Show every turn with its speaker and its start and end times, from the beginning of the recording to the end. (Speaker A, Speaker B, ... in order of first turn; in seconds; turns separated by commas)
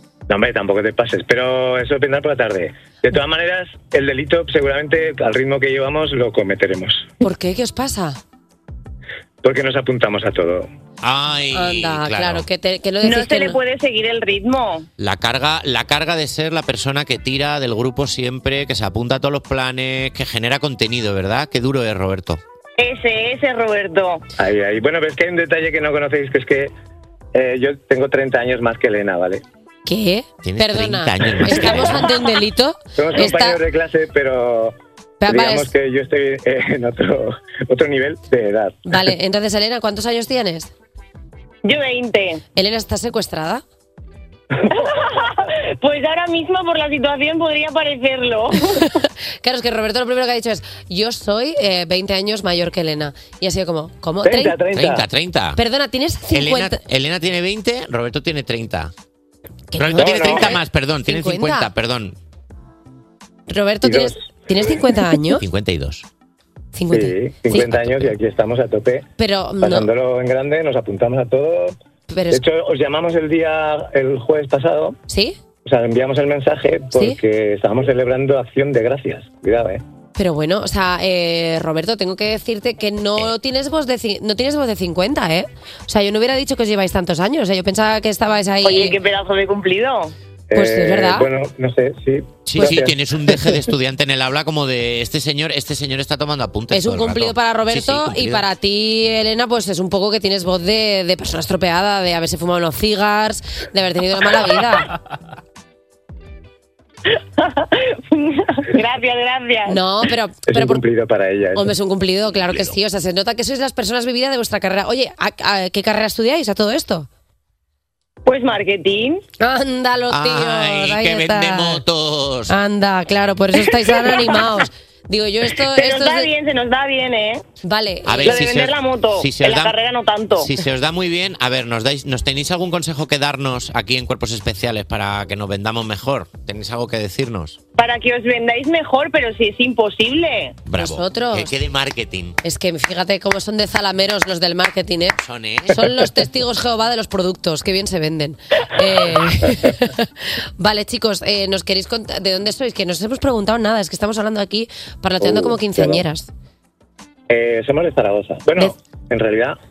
Speaker A: 0.3-7.1, Speaker B: 7.2-8.2, Speaker A: 9.4-10.7, Speaker C: 11.0-12.5, Speaker B: 11.5-13.6, Speaker D: 13.0-14.8, Speaker C: 15.0-22.4, Speaker D: 22.8-24.2, Speaker A: 24.4-26.7, Speaker A: 27.3-29.4, Speaker B: 29.9-33.6, Speaker C: 30.4-32.1, Speaker A: 33.0-34.7, Speaker B: 35.2-35.7, Speaker A: 35.3-39.0, Speaker B: 38.9-40.7, Speaker D: 41.6-42.4, Speaker B: 42.5-43.6, Speaker D: 44.7-48.8, Speaker B: 48.6-54.6, Speaker A: 54.2-55.0, Speaker C: 54.7-55.6, Speaker B: 55.5-56.8, Speaker C: 56.3-58.9, Speaker B: 59.7-61.7, Speaker C: 59.8-62.1, Speaker A: 60.0-60.5, Speaker B: 63.5-65.4, Speaker A: 63.8-64.1, Speaker C: 65.4-66.0, Speaker B: 66.7-67.8, Speaker A: 66.9-69.1, Speaker C: 67.5-68.2, Speaker B: 69.2-69.9, Speaker A: 69.6-71.8, Speaker B: 72.1-72.4, Speaker A: 72.3-75.0, Speaker B: 75.1-75.4, Speaker A: 75.6-79.8, Speaker B: 76.9-77.2, Speaker B: 80.2-89.0, Speaker D: 88.6-90.1, Speaker A: 90.5-93.5, Speaker B: 90.5-91.3, Speaker C: 92.5-98.4, Speaker B: 92.6-92.8, Speaker B: 96.7-104.9, Speaker D: 107.4-109.8, Speaker B: 109.7-110.8, Speaker A: 110.5-111.7, Speaker B: 111.5-117.1, Speaker D: 118.2-119.2, Speaker B: 119.4-121.8, Speaker C: 120.1-122.5, Speaker B: 122.5-126.3, Speaker D: 125.7-127.4, Speaker B: 127.6-128.4, Speaker C: 128.0-129.8, Speaker D: 128.2-130.5, Speaker C: 130.4-137.6, Speaker D: 137.8-140.6, Speaker C: 140.7-142.4, Speaker B: 140.8-141.5, Speaker B: 142.4-145.2, Speaker C: 145.2-145.8, Speaker B: 145.7-156.3, Speaker A: 155.2-156.0, Speaker A: 157.3-159.6